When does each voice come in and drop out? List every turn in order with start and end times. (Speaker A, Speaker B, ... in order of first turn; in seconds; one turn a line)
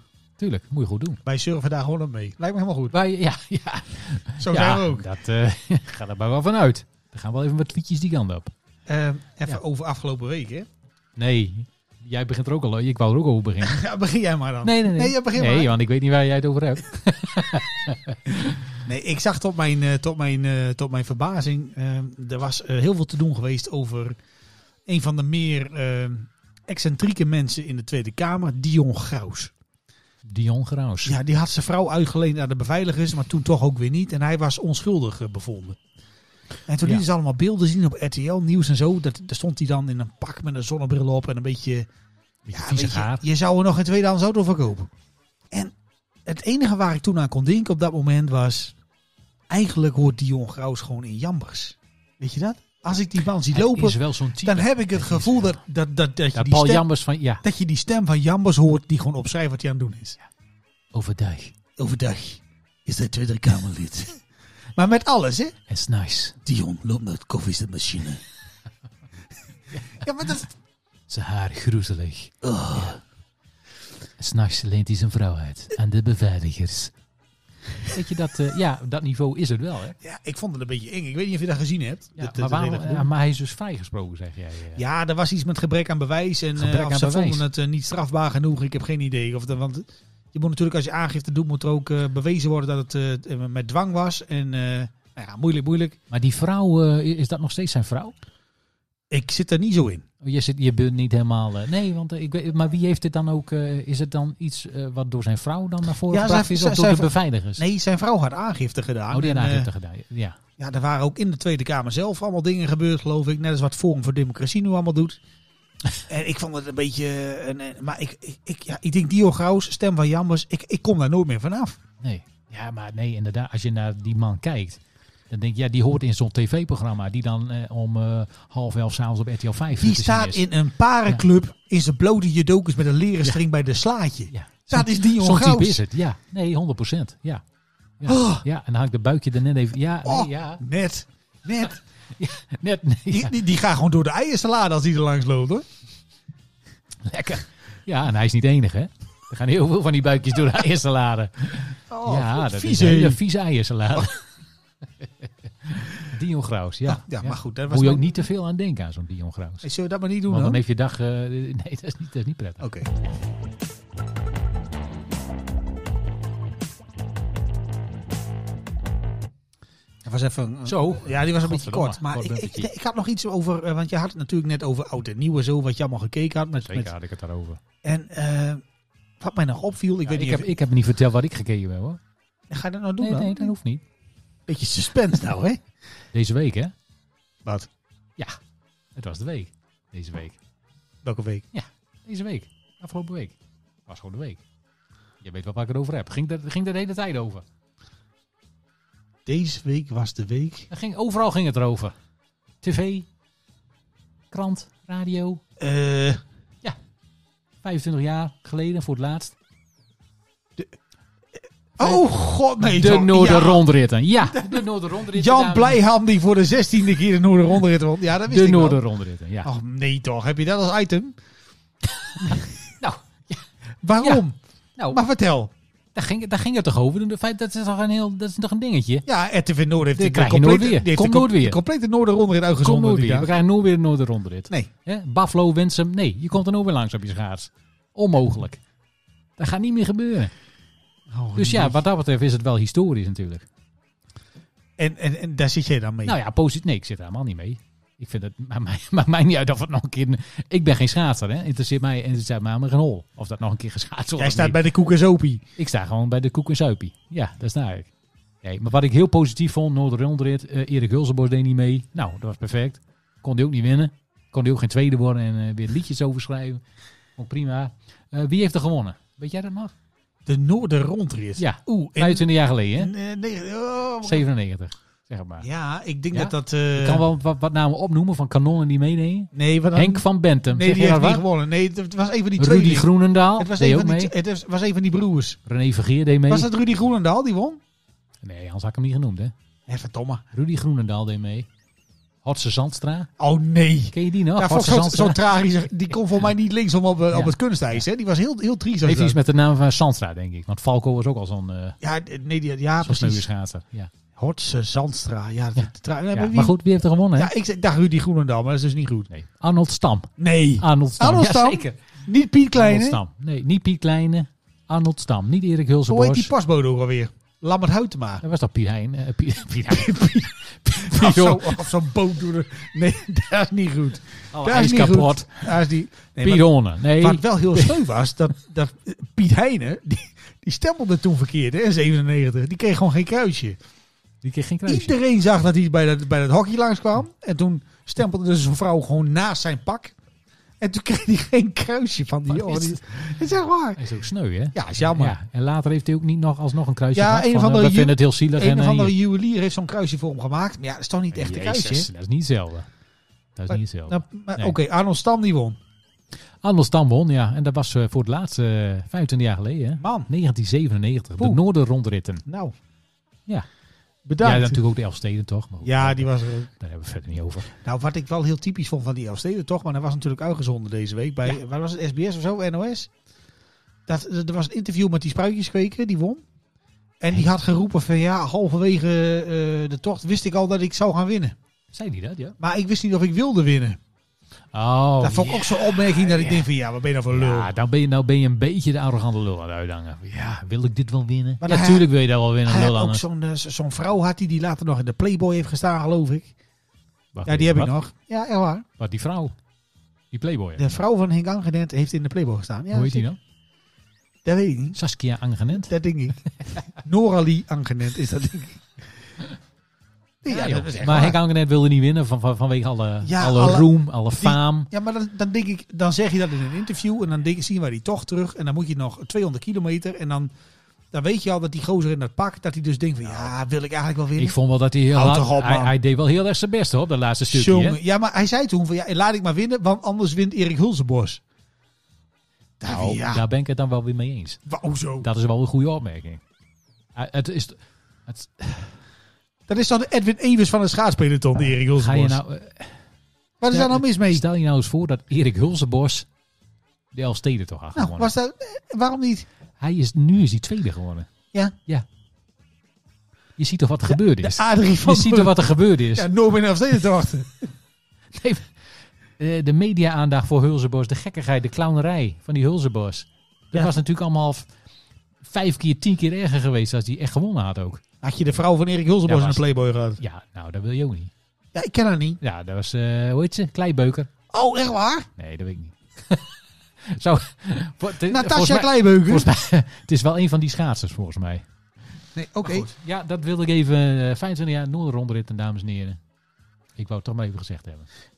Speaker A: 0.4-1.2
Speaker B: 1.2-2.9
Speaker A: 2.9-8.5
Speaker B: 4.4-5.0
Speaker B: 8.9-10.7
Speaker A: 11.2-13.8
Speaker B: 13.6-15.7
Speaker A: 14.6-18.7
Speaker B: 18.8-24.1
Speaker B: 24.9-29.5
Speaker A: 30.2-31.1
Speaker B: 31.0-35.8
Speaker B: 36.7-41.9
Speaker A: 42.5-43.2
Speaker B: 42.5-44.9
Speaker B: 46.2-48.7
Speaker B: 49.5-56.8
Speaker A: 53.5-55.6
Speaker A: 56.3-57.4
Speaker B: 57.4-60.2
Speaker A: 60.9-61.5
Speaker B: 61.8-64.2
Speaker B: 64.8-65.5
Speaker A: 65.7-66.3
Speaker B: 66.4-68.2
Speaker B: 69.9-70.5
Speaker A: 71.1-72.3
Speaker B: 72.4-73.0
Speaker A: 74.2-76.9
Speaker A: 77.9-80.0
Speaker B: 80.0-83.1
Speaker A: 82.2-84.8
Speaker B: 84.8-96.0
Speaker A: 86.6-87.4
Speaker A: 96.1-98.1
Speaker B: 99.1-100.0
Speaker A: 100.2-107.6
Speaker B: 106.1-109.7
Speaker A: 109.1-110.4
Speaker B: 110.6-115.2
Speaker B: 116.1-121.8
Speaker A: 122.0-130.4
Speaker B: 129.8-135.8
Speaker A: 134.3-137.4
Speaker A: 138.0-140.6
Speaker B: 138.1-138.4
Speaker B: 140.0-141.8
Speaker A: 142.2-143.3
Speaker B: 143.1-145.6
Speaker A: 147.0-154.2
Speaker B: 151.9-153.2
Speaker A: 155.2-159.7
Speaker B: 156.9-158.2
Speaker B: 159.6-160.6
Speaker A: 160.3-162.7
Speaker B: 162.6-162.9
Speaker B: 170.0-176.9
Speaker A: 170.6-172.7
Speaker A: 176.6-177.6
Speaker B: 177.8-178.6
Speaker B: 179.2-180.5
Speaker A: 180.1-182.0
Speaker B: 182.5-183.5
Speaker A: 183.0-183.8
Speaker B: 184.5-185.6
Speaker A: 186.1-186.7
Speaker A: 188.9-190.3
Speaker B: 191.0-191.4
Speaker A: 191.5-193.3
Speaker A: 193.9-194.4
Speaker A: 195.2-197.4
Speaker B: 199.2-200.7
Speaker A: 200.7-201.9
Speaker A: 202.6-203.1
Speaker A: 204.3-205.4
Speaker B: 205.6-206.2
Speaker A: 207.6-209.3
Speaker B: 211.8-213.6
Speaker A: 212.6-215.8
Speaker B: 214.2-218.8
Speaker A: 218.3-219.5
Speaker B: 219.4-221.2
Speaker A: 222.8-223.4
Speaker B: 223.8-224.4
Speaker B: 224.9-225.5
Speaker A: 225.9-229.1
Speaker B: 229.1-233.3
Speaker A: 229.9-231.6
Speaker A: 232.6-238.6
Speaker A: 239.4-240.3
Speaker B: 241.1-241.8
Speaker A: 241.3-243.4
Speaker B: 244.8-246.2
Speaker A: 246.0-254.6
Speaker B: 254.2-255.4
Speaker A: 255.6-257.9
Speaker A: 258.4-266.6
Speaker A: 267.1-269.7
Speaker B: 270.2-272.2
Speaker A: 271.4-272.9
Speaker B: 272.8-274.2
Speaker A: 274.0-275.4
Speaker B: 275.4-277.0
Speaker A: 276.1-281.2
Speaker B: 279.3-285.4
Speaker A: 282.4-284.1
Speaker A: 285.4-286.5
Speaker B: 286.3-287.6
Speaker A: 288.2-289.3
Speaker B: 289.7-290.2
Speaker A: 290.3-291.5
Speaker A: 292.2-293.1
Speaker B: 293.2-299.2
Speaker A: 293.9-295.2
Speaker A: 298.8-301.8
Speaker B: 301.8-303.2
Speaker A: 302.8-303.9
Speaker B: 304.1-306.5
Speaker A: 305.6-307.3
Speaker B: 307.1-309.1
Speaker A: 309.1-311.9
Speaker B: 310.2-313.0
Speaker A: 312.5-316.3
Speaker B: 315.9-318.2
Speaker A: 318.2-321.6
Speaker B: 319.7-333.6
Speaker A: 324.3-325.5
Speaker A: 326.2-327.8
Speaker A: 334.2-334.9
Speaker B: 334.7-339.9
Speaker B: 340.6-343.8
Speaker A: 342.3-342.8
Speaker A: 343.8-348.9
Speaker B: 344.5-345.1
Speaker B: 346.9-351.9
Speaker A: 351.1-352.7
Speaker A: 353.3-354.5
Speaker B: 353.5-355.6
Speaker A: 356.4-362.2
Speaker B: 359.8-360.1
Speaker B: 362.2-362.5
Speaker B: 364.1-364.6
Speaker A: 364.2-367.5
Speaker B: 365.6-366.5
Speaker B: 367.6-372.9
Speaker B: 373.9-376.2
Speaker B: 377.0-381.4
Speaker A: 381.7-382.4
Speaker B: 382.4-383.8
Speaker A: 384.5-386.4
Speaker B: 385.0-387.5
Speaker A: 387.1-393.0
Speaker B: 391.4-391.9
Speaker B: 392.4-396.3
Speaker A: 397.1-397.7
Speaker B: 397.2-398.6
Speaker A: 398.8-399.3
Speaker A: 400.1-400.8
Speaker B: 400.6-403.1
Speaker A: 402.7-403.2
Speaker B: 404.2-404.8
Speaker A: 404.8-405.7
Speaker B: 405.6-408.7
Speaker B: 410.2-411.2
Speaker A: 410.3-414.7
Speaker B: 413.0-420.3
Speaker B: 420.9-424.4
Speaker A: 424.2-427.8
Speaker B: 424.9-425.7
Speaker B: 427.3-431.2
Speaker B: 432.6-433.2
Speaker A: 432.6-434.4
Speaker B: 434.5-435.1
Speaker A: 435.0-436.2
Speaker A: 436.9-438.8
Speaker B: 439.5-442.2
Speaker A: 441.7-442.8
Speaker B: 443.4-444.2
Speaker A: 443.5-446.1
Speaker A: 446.9-448.1
Speaker B: 447.7-449.2
Speaker A: 449.6-451.1
Speaker A: 453.4-456.1
Speaker B: 453.9-455.4
Speaker B: 455.9-457.5
Speaker A: 458.1-464.5
Speaker A: 465.2-467.8
Speaker B: 468.0-470.0
Speaker A: 469.1-469.4
Speaker A: 470.0-471.1
Speaker B: 471.5-472.2
Speaker A: 472.2-474.1
Speaker B: 474.3-475.1
Speaker A: 475.2-476.3
Speaker A: 476.8-481.4
Speaker B: 478.1-479.3
Speaker B: 482.1-482.7
Speaker A: 482.4-486.0
Speaker A: 486.8-487.9